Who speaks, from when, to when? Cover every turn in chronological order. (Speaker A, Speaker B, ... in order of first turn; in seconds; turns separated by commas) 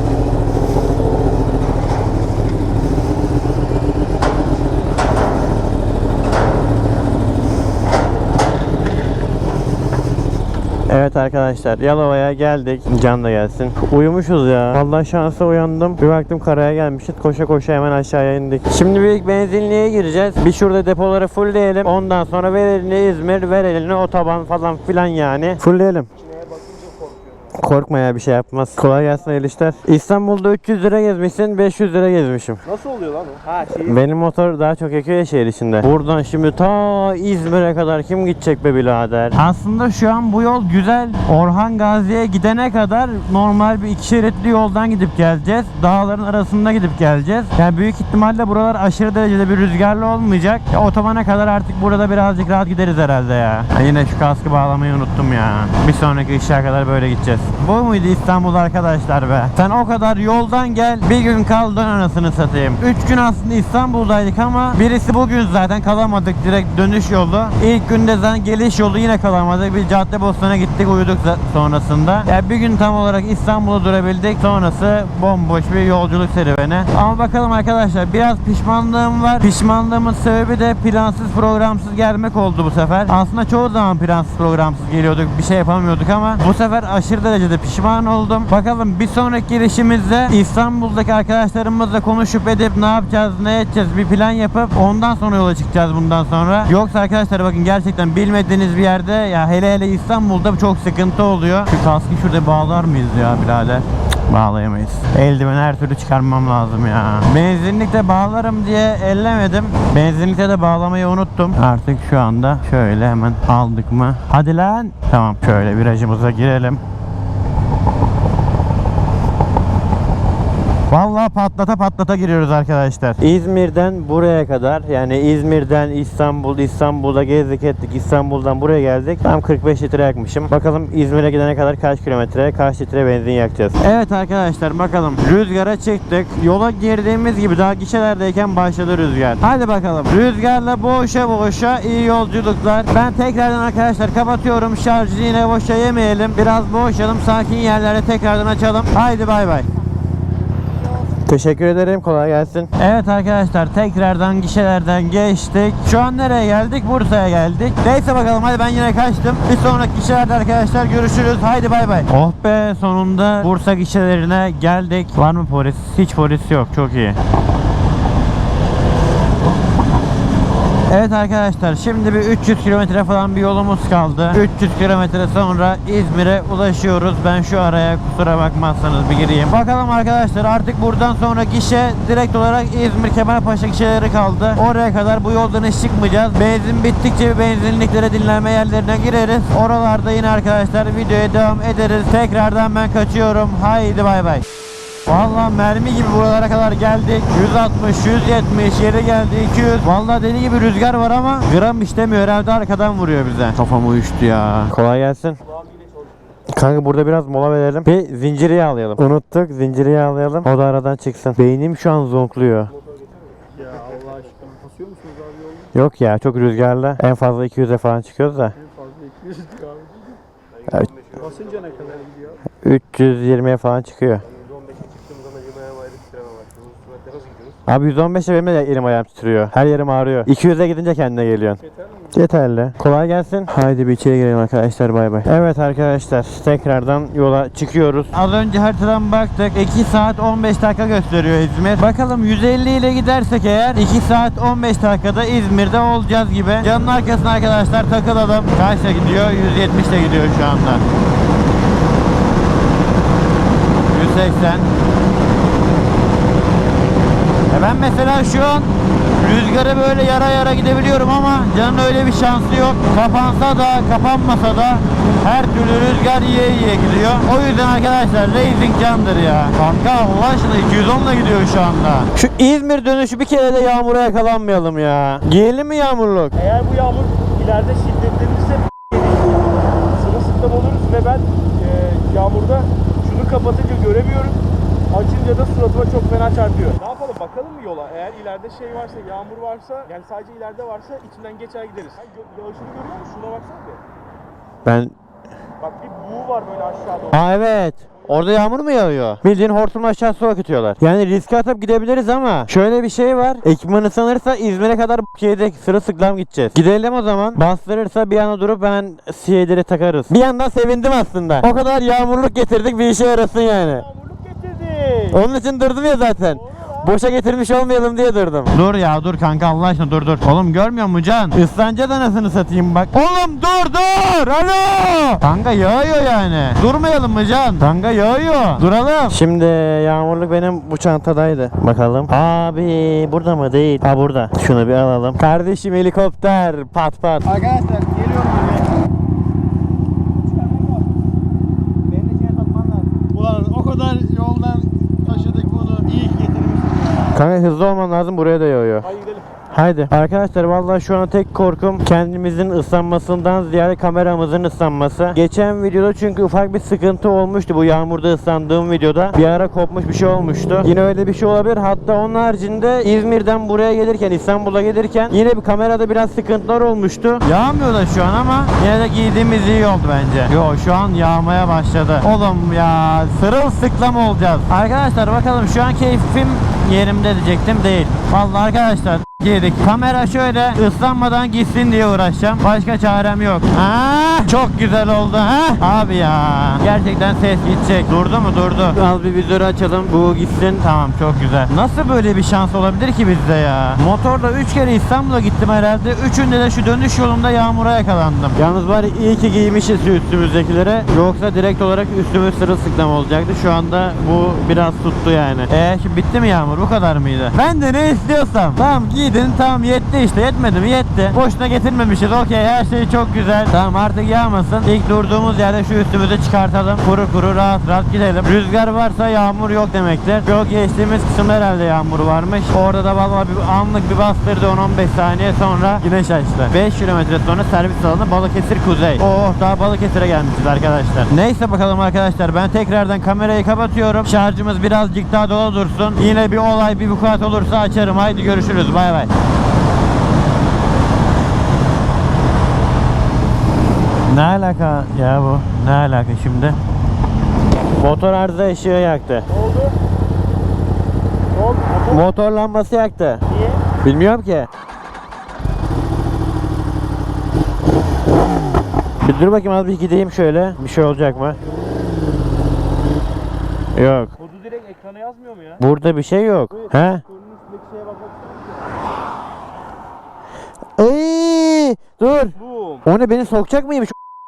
Speaker A: 10.9-26.1, Speaker B: 26.4-27.2, Speaker A: 27.5-32.6, Speaker B: 32.6-34.0, Speaker A: 33.7-116.8, Speaker A: 120.9-149.7, Speaker A: 151.2-167.2, Speaker A: 170.9-194.4, Speaker A: 195.1-205.4, Speaker A: 206.5-212.7, Speaker B: 213.6-215.5, Speaker A: 215.7-218.5, Speaker B: 218.9-219.9, Speaker A: 220.7-220.9, Speaker C: 221.1-221.9, Speaker B: 221.1-222.3, Speaker A: 222.6-224.2, Speaker A: 227.7-231.6, Speaker A: 232.1-250.8, Speaker A: 253.9-254.7, Speaker A: 257.5-276.3, Speaker B: 276.3-284.4, Speaker B: 284.9-293.8, Speaker A: 294.6-294.9, Speaker B: 295.6-297.3, Speaker A: 297.1-313.9, Speaker B: 313.6-315.2, Speaker A: 315.1-337.5, Speaker B: 316.3-316.9, Speaker C: 337.5-338.1, Speaker B: 337.7-338.6, Speaker B: 342.1-343.1, Speaker A: 343.1-346.0, Speaker B: 345.0-345.5, Speaker C: 345.8-346.9, Speaker A: 346.9-348.9, Speaker B: 348.8-349.2, Speaker A: 349.5-439.1, Speaker A: 444.1-446.6, Speaker A: 447.8-449.3, Speaker B: 449.3-449.7, Speaker B: 451.3-452.0, Speaker A: 451.9-453.2, Speaker B: 453.3-453.6, Speaker A: 453.8-454.5, Speaker A: 459.0-461.4, Speaker A: 463.7-464.1, Speaker B: 464.2-465.6, Speaker A: 465.6-467.0, Speaker B: 466.5-468.5, Speaker A: 470.8-473.9, Speaker B: 472.3-472.9